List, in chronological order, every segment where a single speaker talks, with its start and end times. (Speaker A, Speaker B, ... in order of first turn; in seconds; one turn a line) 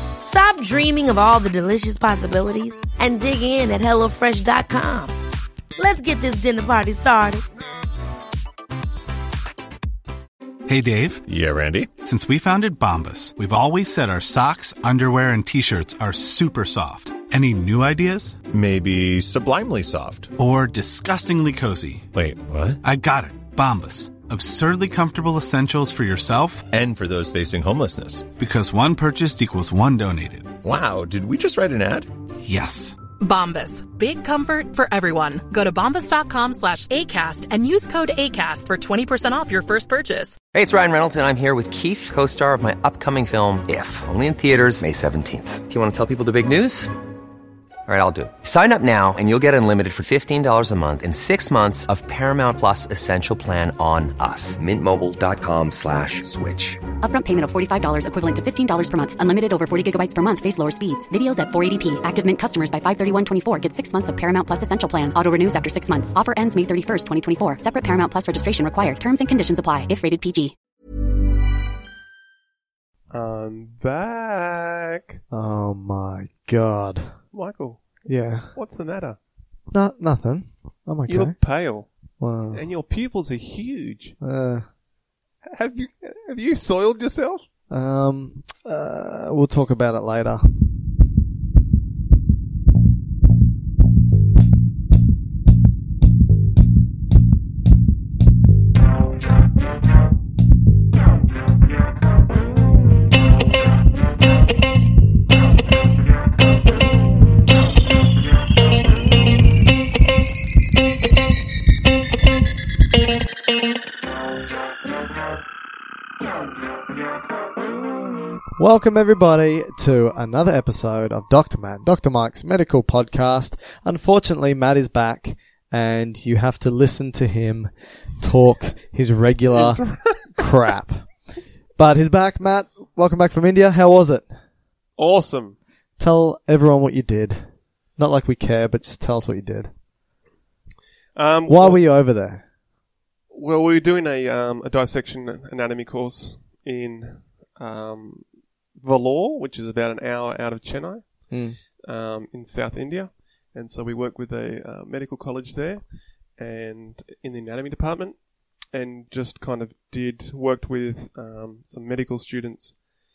Speaker A: 0.2-5.1
Speaker A: 5.8-7.5
Speaker B: 10.7-11.2
Speaker C: 11.3-11.9
Speaker B: 12.0-18.4
Speaker C: 18.5-20.3
Speaker B: 20.4-22.1
Speaker C: 22.1-22.8
Speaker B: 22.8-26.7
Speaker C: 26.7-28.3
Speaker B: 28.4-30.5
Speaker C: 30.6-32.1
Speaker B: 32.4-33.0
Speaker D: 33.2-40.4
Speaker E: 40.5-46.9
Speaker E: 47.9-56.8
Speaker F: 57.0-70.5
Speaker G: 73.1-75.2
Speaker H: 75.3-77.2
Speaker G: 77.3-79.2
Speaker H: 78.1-78.5
Speaker H: 79.7-81.4
Speaker G: 81.1-81.9
Speaker H: 82.2-82.6
Speaker G: 82.5-84.2
Speaker H: 84.2-84.7
Speaker G: 85.4-87.5
Speaker H: 87.7-90.5
Speaker H: 118.6-131.1
Speaker G: 129.5-130.5
Speaker H: 131.8-134.3
Speaker G: 135.0-135.6
Speaker H: 136.0-139.7
Speaker G: 141.2-141.8
Speaker H: 141.5-142.4
Speaker G: 143.3-162.9
Speaker H: 151.3-151.6